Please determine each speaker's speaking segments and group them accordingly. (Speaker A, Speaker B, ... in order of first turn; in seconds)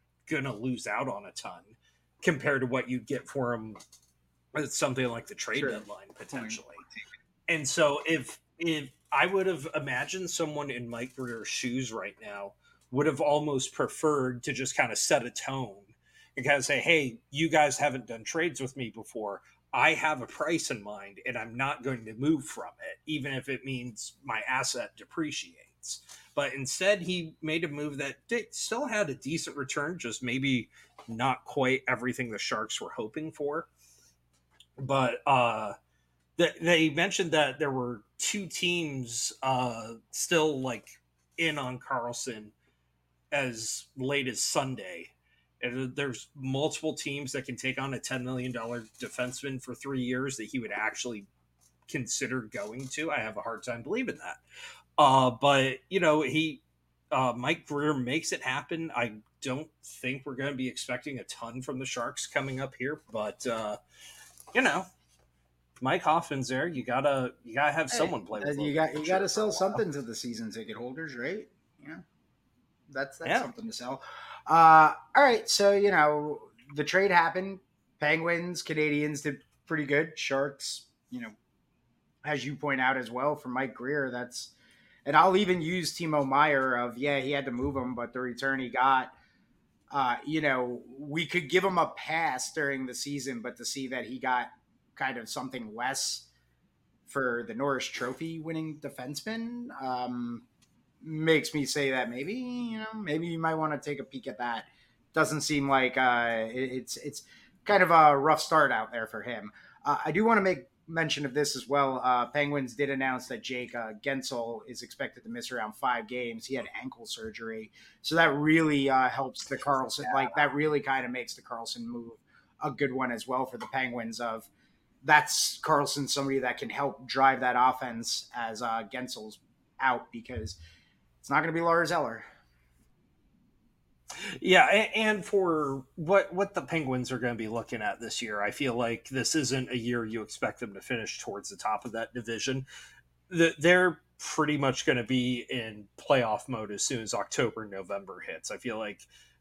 Speaker A: 0.3-3.8, 4.5-6.8, 7.5-33.7, 34.8-35.8, 36.4-42.5, 43.3-51.3, 51.9-54.4, 55.0-63.8, 64.5-64.9, 65.8-69.8, 73.2-73.5, 134.1-142.7, 143.3-149.1
Speaker B: 5.5-6.6, 67.9-72.0, 72.9-81.3, 82.2-84.5, 85.0-89.1, 89.9-96.3, 97.1-100.4, 101.0-124.5, 125.0-130.6, 131.2-132.2